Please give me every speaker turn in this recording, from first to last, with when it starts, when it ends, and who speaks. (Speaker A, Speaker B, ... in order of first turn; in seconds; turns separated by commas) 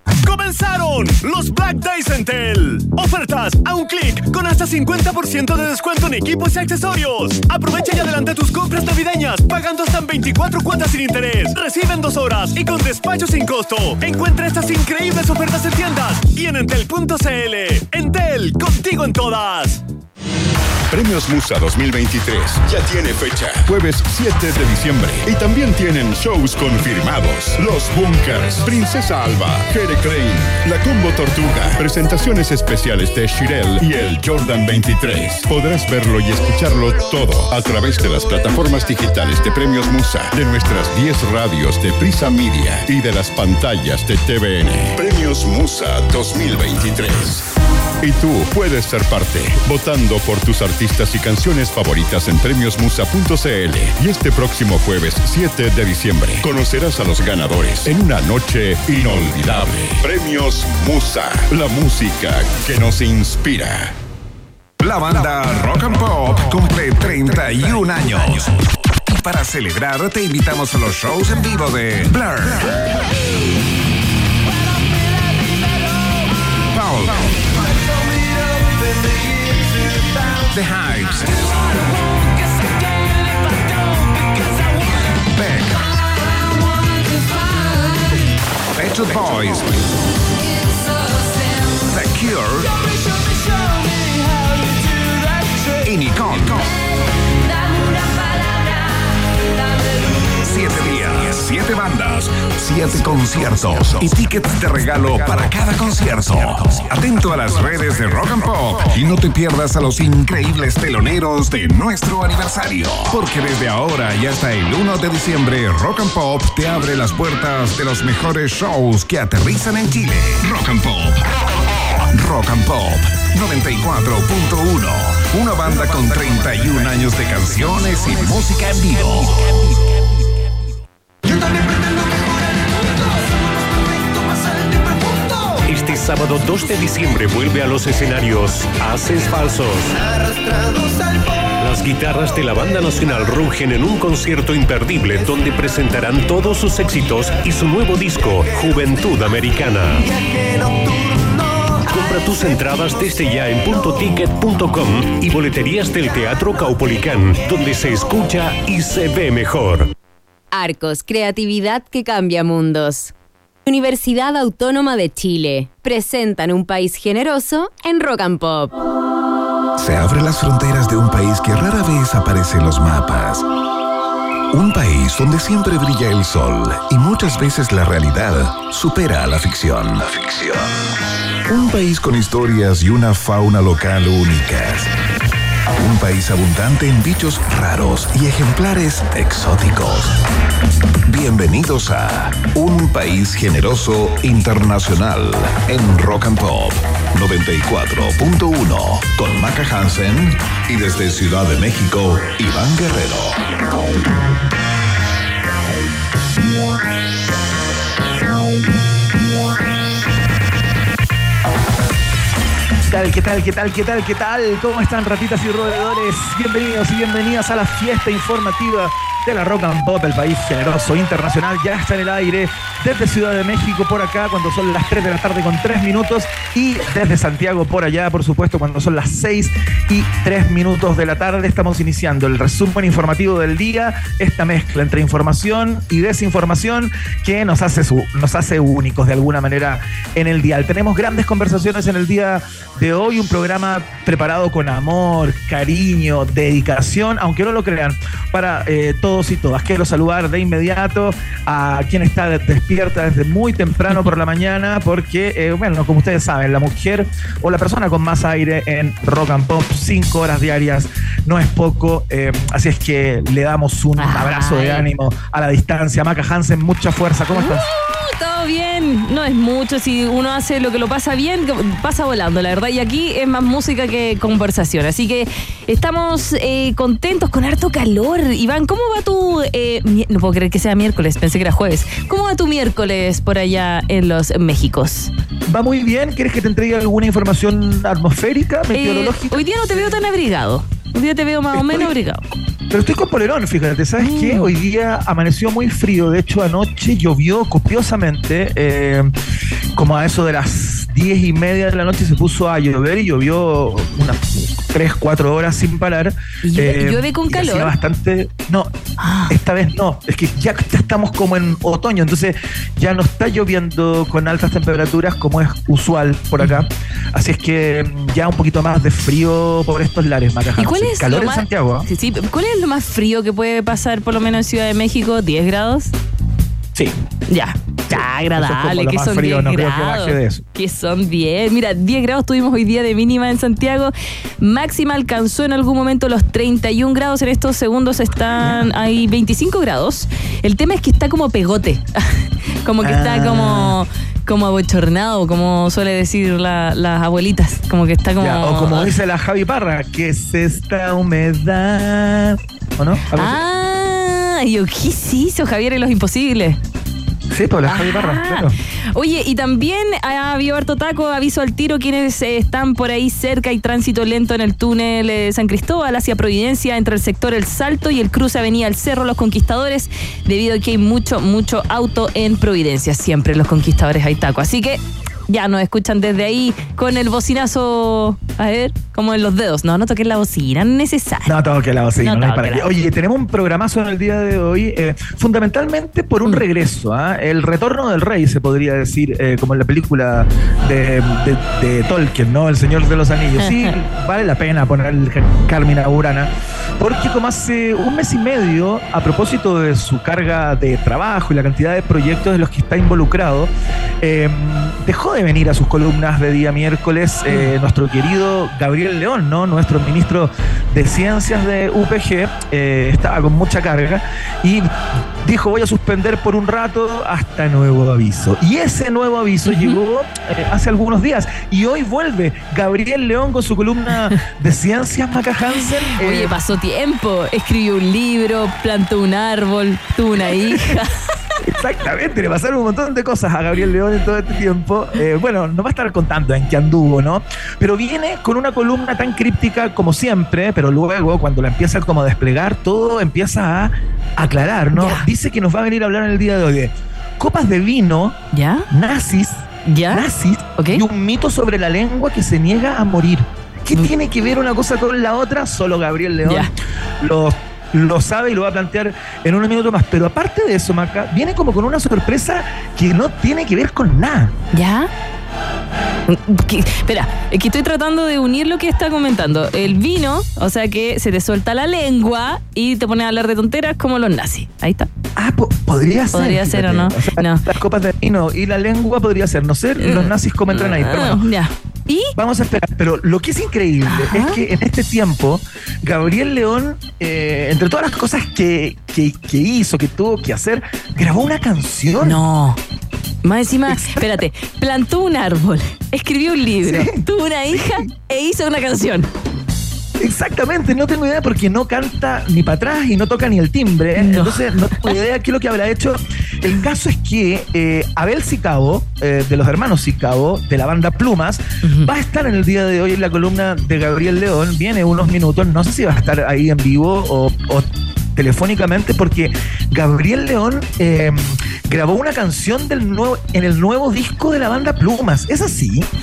Speaker A: 0.2-19.8, Speaker B: 20.9-47.5, Speaker B: 48.0-63.9, Speaker C: 59.0-59.6, Speaker C: 64.8-73.0, Speaker C: 76.7-77.4, Speaker C: 80.5-81.4, Speaker C: 85.2-86.0, Speaker C: 88.7-89.7, Speaker C: 91.8-92.8, Speaker C: 95.8-96.7, Speaker C: 100.2-121.2, Speaker C: 122.1-129.6, Speaker D: 135.7-139.9, Speaker D: 141.6-150.1, Speaker D: 151.8-159.9, Speaker E: 160.5-163.1, Speaker E: 163.7-168.8, Speaker C: 169.8-173.4, Speaker C: 174.5-180.7, Speaker C: 181.5-184.9, Speaker C: 185.8-190.1, Speaker C: 191.1-203.4, Speaker F: 212.8-267.7, Speaker G: 264.0-264.9, Speaker G: 267.3-285.1, Speaker F: 285.5-289.4, Speaker G: 288.7-292.2, Speaker F: 291.5-291.9, Speaker F: 292.7-299.1, Speaker G: 294.0-294.5, Speaker F: 299.7-308.7, Speaker G: 306.4-307.7, Speaker G: 309.0-309.4, Speaker F: 309.3-321.9, Speaker G: 320.6-325.9, Speaker G: 327.3-348.9, Speaker F: 327.9-330.4, Speaker F: 338.4-338.7, Speaker F: 342.8-343.8, Speaker F: 348.2-353.4, Speaker G: 353.1-356.6, Speaker F: 357.3-358.5, Speaker G: 357.6-381.4, Speaker F: 381.2-414.7, Speaker G: 382.0-382.7, Speaker G: 393.4-393.7, Speaker F: 415.2-426.3, Speaker G: 419.5-419.8, Speaker G: 426.0-431.0, Speaker F: 430.5-430.7, Speaker F: 431.4-448.2, Speaker G: 444.7-445.1, Speaker G: 448.3-448.7, Speaker F: 448.7-464.3, Speaker G: 449.6-450.0, Speaker G: 450.6-450.8, Speaker G: 456.2-456.5, Speaker G: 464.5-464.9, Speaker G: 466.1-474.9, Speaker F: 475.1-481.2, Speaker G: 476.1-477.4, Speaker G: 479.8-482.1, Speaker F: 482.1-492.2, Speaker G: 483.9-484.4, Speaker G: 492.0-492.6, Speaker G: 493.2-499.1, Speaker F: 493.7-494.2, Speaker F: 496.6-497.8, Speaker F: 500.0-525.9, Speaker G: 504.0-505.0, Speaker G: 511.6-511.9